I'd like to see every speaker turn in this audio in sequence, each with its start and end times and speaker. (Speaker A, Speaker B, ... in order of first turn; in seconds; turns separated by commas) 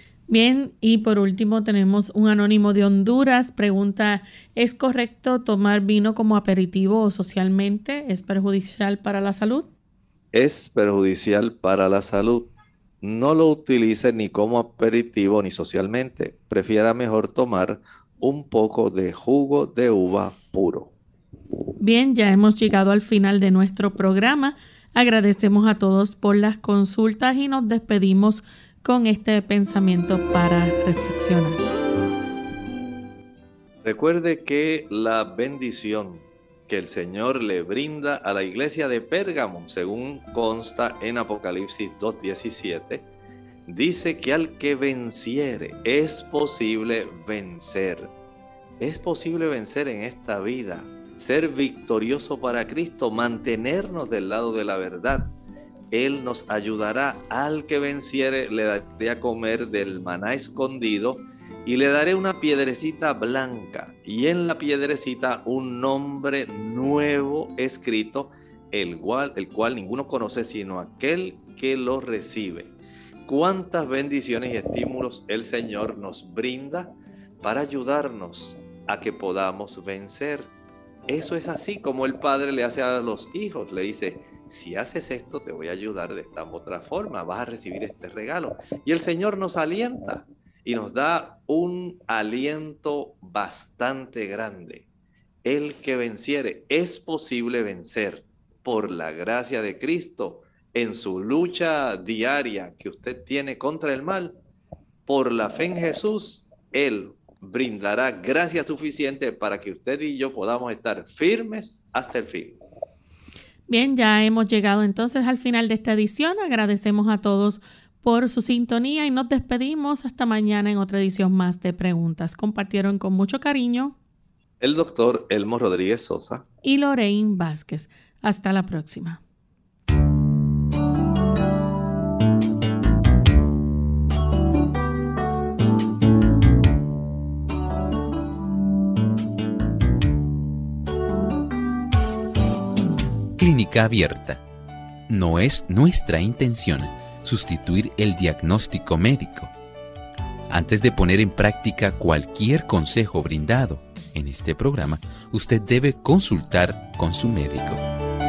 Speaker A: 0.3-9.7, Speaker B: 10.3-20.9, Speaker A: 21.8-31.6, Speaker B: 33.8-43.0, Speaker B: 43.7-48.1, Speaker B: 48.8-55.3, Speaker B: 55.9-72.7, Speaker B: 73.2-80.5, Speaker B: 81.1-94.8, Speaker B: 95.4-104.3, Speaker B: 105.0-112.6, Speaker A: 113.7-123.9, Speaker B: 124.6-126.4, Speaker A: 126.6-129.2, Speaker C: 143.4-144.4, Speaker C: 145.1-149.5, Speaker C: 150.5-157.8